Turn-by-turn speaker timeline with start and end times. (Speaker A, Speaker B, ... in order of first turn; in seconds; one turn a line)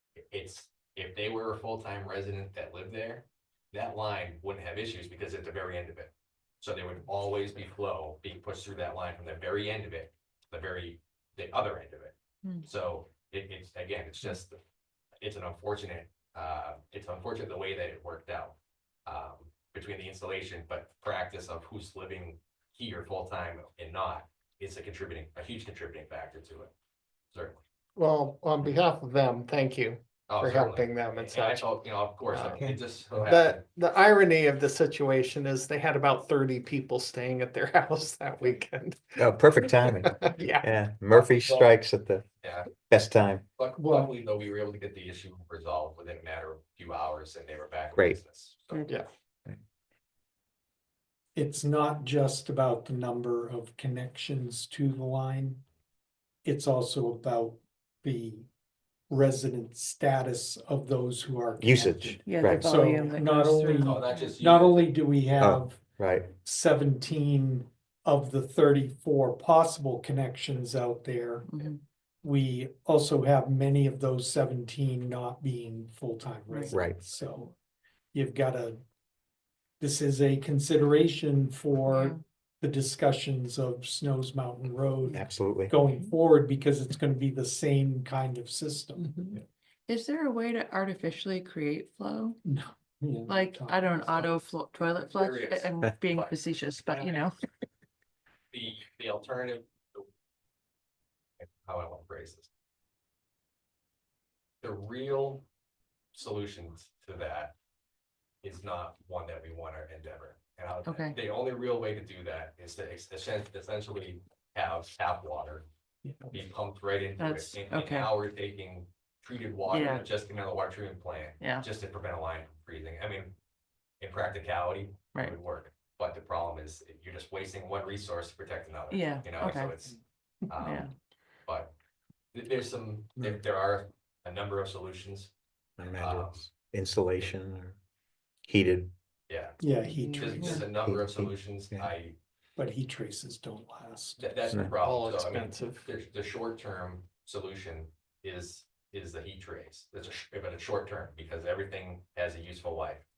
Speaker A: 0.3-14.6
Speaker A: 15.2-18.5
Speaker A: 19.1-26.7
Speaker A: 27.3-27.6
Speaker B: 27.9-31.6
Speaker A: 30.3-33.6
Speaker B: 32.3-32.7
Speaker B: 33.2-39.2
Speaker C: 39.2-42.2
Speaker B: 39.9-40.7
Speaker A: 41.1-41.7
Speaker A: 42.4-42.7
Speaker C: 42.9-43.4
Speaker A: 43.6-48.9
Speaker D: 43.8-44.1
Speaker E: 48.7-49.0
Speaker D: 51.3-55.6
Speaker D: 56.4-58.5
Speaker D: 59.1-65.8
Speaker C: 61.6-62.7
Speaker E: 62.2-64.0
Speaker A: 63.8-64.9
Speaker C: 65.4-66.3
Speaker D: 66.3-71.5
Speaker E: 71.5-71.8
Speaker D: 72.2-77.5
Speaker C: 76.7-77.0
Speaker D: 78.1-78.8
Speaker D: 79.8-89.1
Speaker E: 81.9-82.2
Speaker C: 85.1-85.7
Speaker B: 89.0-89.3
Speaker E: 89.9-92.4
Speaker D: 92.5-94.2
Speaker E: 93.3-97.4
Speaker A: 95.0-96.3
Speaker A: 96.9-97.2
Speaker A: 98.5-100.1
Speaker A: 101.4-102.5
Speaker A: 104.6-105.4
Speaker A: 106.1-107.5
Speaker A: 108.4-115.7
Speaker E: 110.8-111.2
Speaker D: 116.0-116.3
Speaker A: 116.3-123.3
Speaker E: 117.2-118.1
Speaker E: 119.7-120.0
Speaker E: 121.4-121.6
Speaker A: 124.0-130.9
Speaker E: 128.9-129.8
Speaker E: 130.6-130.9
Speaker A: 131.5-131.7
Speaker A: 132.3-135.3
Speaker C: 135.8-137.8
Speaker A: 136.0-136.5
Speaker C: 138.5-138.9
Speaker A: 139.3-139.6
Speaker D: 139.6-140.7
Speaker E: 139.8-140.7
Speaker A: 140.1-142.2
Speaker C: 140.7-141.9
Speaker D: 142.6-144.2
Speaker A: 144.2-153.0
Speaker B: 144.8-145.9